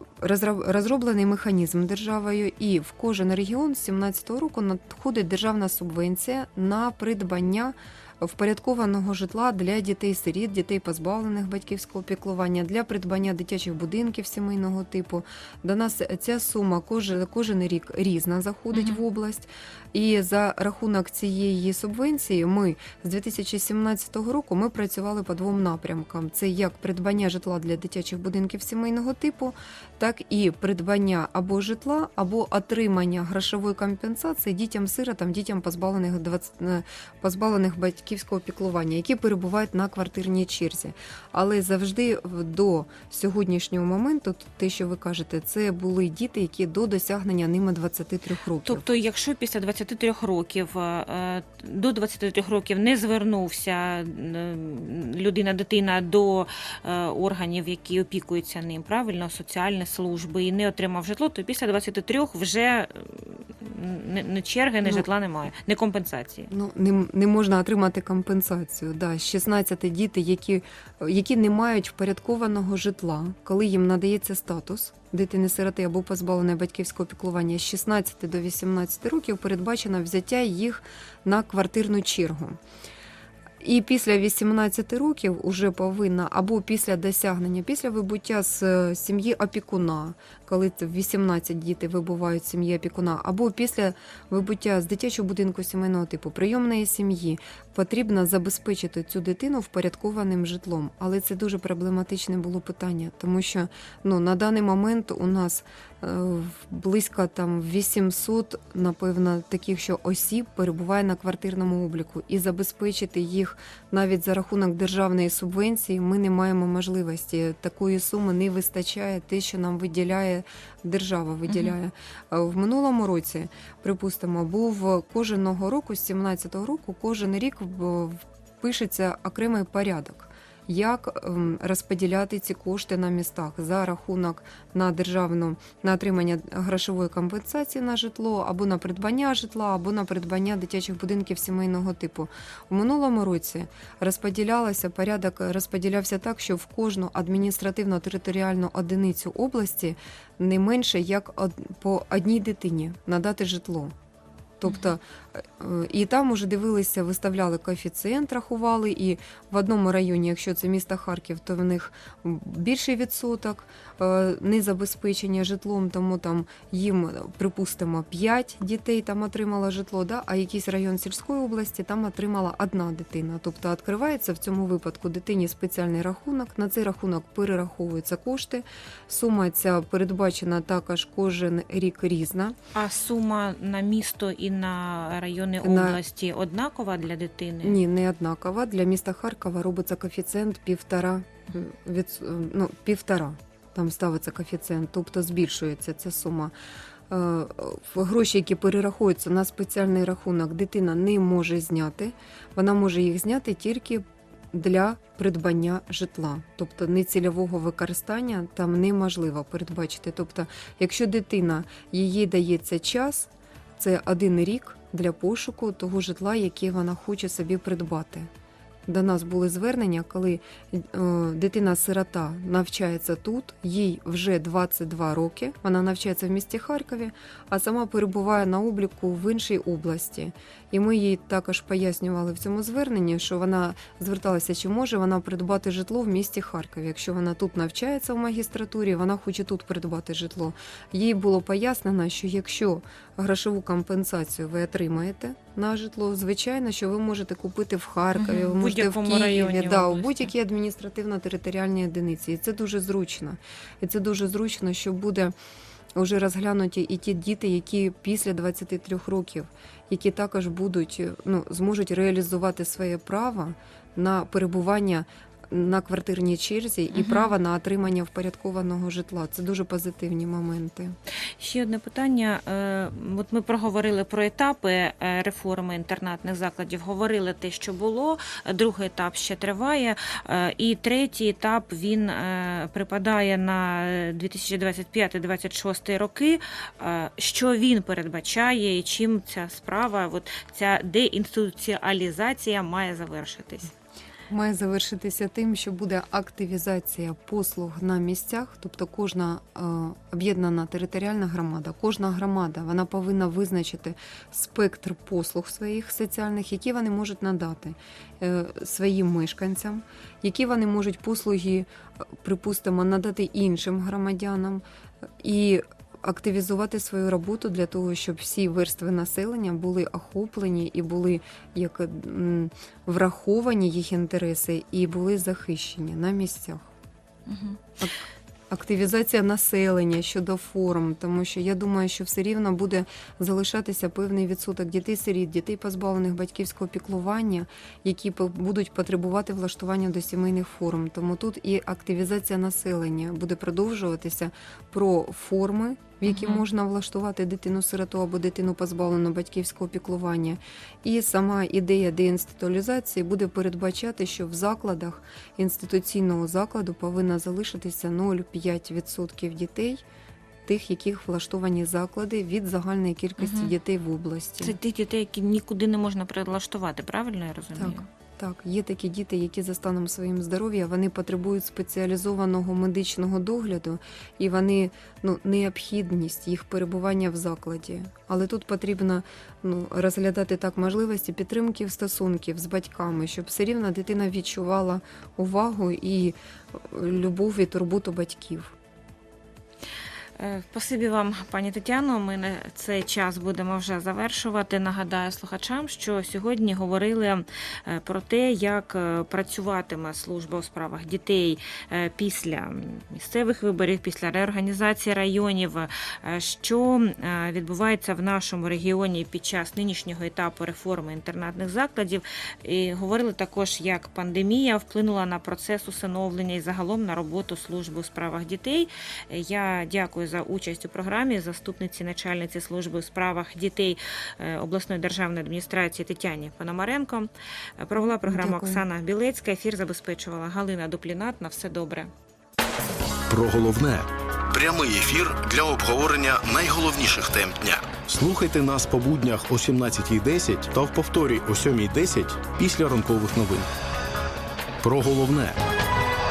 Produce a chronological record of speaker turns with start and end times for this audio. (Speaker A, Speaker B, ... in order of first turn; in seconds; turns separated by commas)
Speaker A: 0.2-48.9, Speaker B: 18.7-19.0, Speaker B: 48.6-66.5, Speaker A: 66.5-82.6, Speaker A: 83.6-153.9, Speaker B: 121.5-121.8, Speaker A: 154.6-182.6, Speaker B: 154.7-154.9, Speaker B: 182.8-187.8, Speaker A: 185.6-186.0, Speaker A: 187.6-196.5, Speaker A: 197.1-218.3, Speaker A: 218.9-255.3, Speaker B: 248.2-250.3, Speaker A: 255.9-271.0, Speaker B: 266.9-267.3, Speaker B: 271.4-293.7, Speaker A: 294.3-314.6, Speaker A: 315.2-326.7, Speaker B: 327.3-327.6, Speaker A: 328.5-359.8, Speaker B: 346.1-346.4, Speaker A: 360.5-364.6, Speaker B: 363.2-363.5, Speaker B: 364.4-367.9, Speaker A: 367.6-388.5, Speaker B: 390.2-431.9, Speaker A: 427.8-428.6, Speaker C: 433.1-443.5, Speaker C: 444.6-445.4